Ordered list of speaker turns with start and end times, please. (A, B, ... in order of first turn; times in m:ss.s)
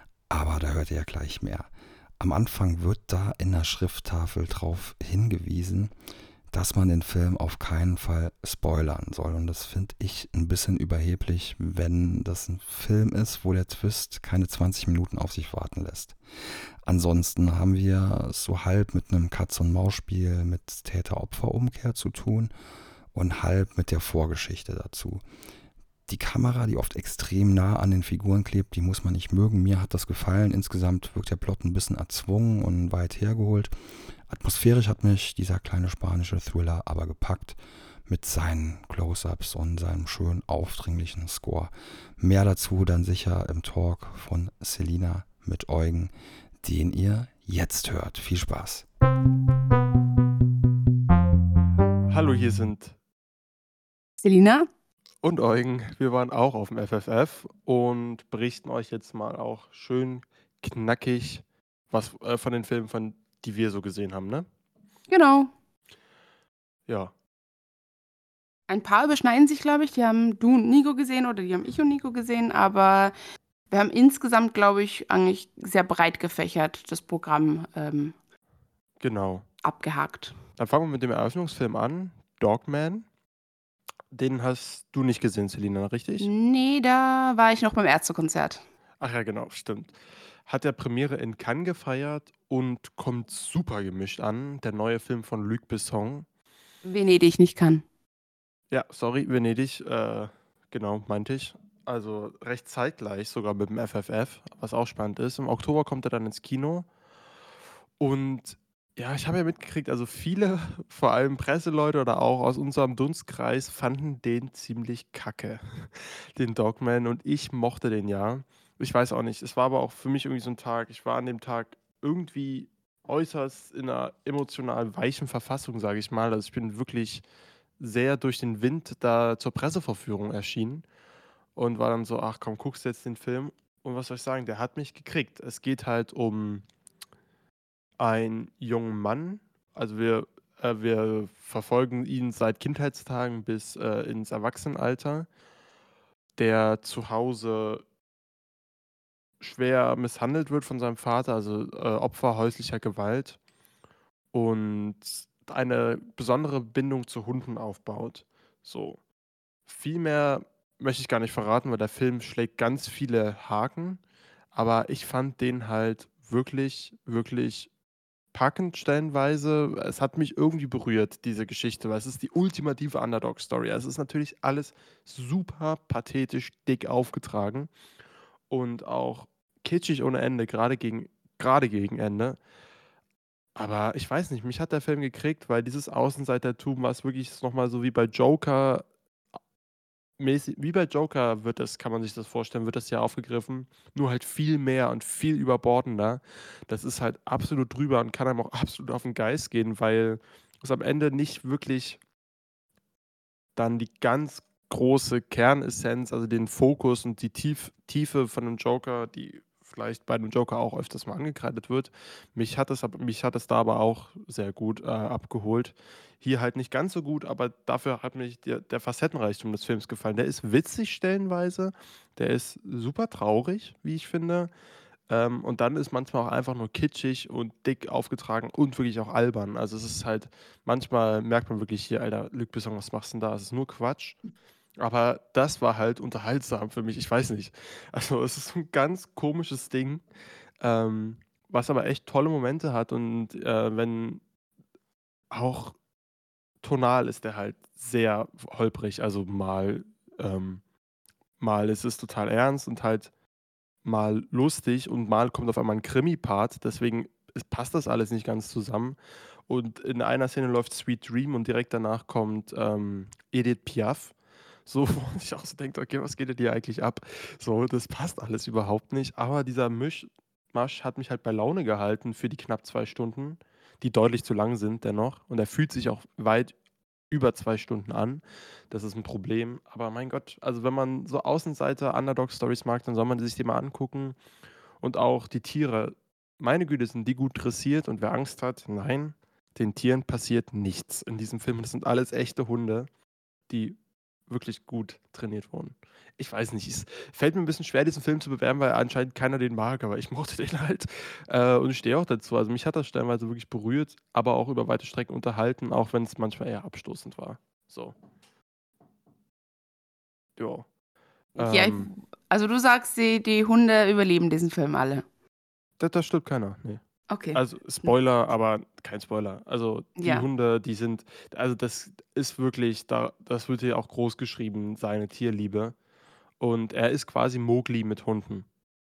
0:00.3-0:05.9 A
0:06.5-0:16.2 A
0:16.8-0:22.5 A
0:23.1-0:25.2 A
0:26.1-0:33.7 A
0:34.3-0:48.9 A
0:52.1-0:53.0 B
0:54.2-0:54.7 C
0:55.2-1:04.5 B
1:05.1-1:05.5 C
1:06.9-1:07.1 B
1:08.7-1:13.1 C
1:13.7-1:18.2 C
1:19.0-1:19.4 B
1:19.6-1:20.4 C
1:20.6-1:23.1 B
1:24.1-1:26.3 B
1:26.2-1:28.6 C
1:29.0-1:30.0 B
1:30.5-1:36.3 B
1:36.8-1:37.8 C
1:38.7-1:46.9 B
1:48.0-2:07.2 B
2:07.8-2:10.8 B
2:11.6-2:16.6 B
2:18.0-2:25.3 B
2:26.4-2:27.8 B
2:29.4-2:33.4 B
2:34.3-2:39.0 B
2:39.7-2:44.0 B
2:44.5-2:47.7 B
2:48.3-2:57.7 B
2:58.5-3:02.4 B
3:03.6-3:08.9 B
3:10.2-3:22.0 B
3:23.6-3:44.5 B
3:45.1-3:54.2 B
3:54.8-4:00.0 B
4:00.6-4:04.2 B
4:05.3-4:05.8 B
4:06.6-4:10.6 B
4:11.4-4:13.1 B
4:13.8-4:19.0 B
4:19.5-4:24.1 B
4:24.7-4:36.6 B
4:37.1-4:44.2 B
4:44.8-4:52.9 B
4:53.5-4:53.8 B
4:54.3-5:08.0 B
5:10.4-5:10.7 B
5:11.4-5:11.9 B
5:11.4-5:15.0 C
5:15.8-5:16.8 B
5:17.1-5:17.9 C
5:17.3-5:25.8 B
5:20.0-5:20.2 C
5:26.4-5:28.5 B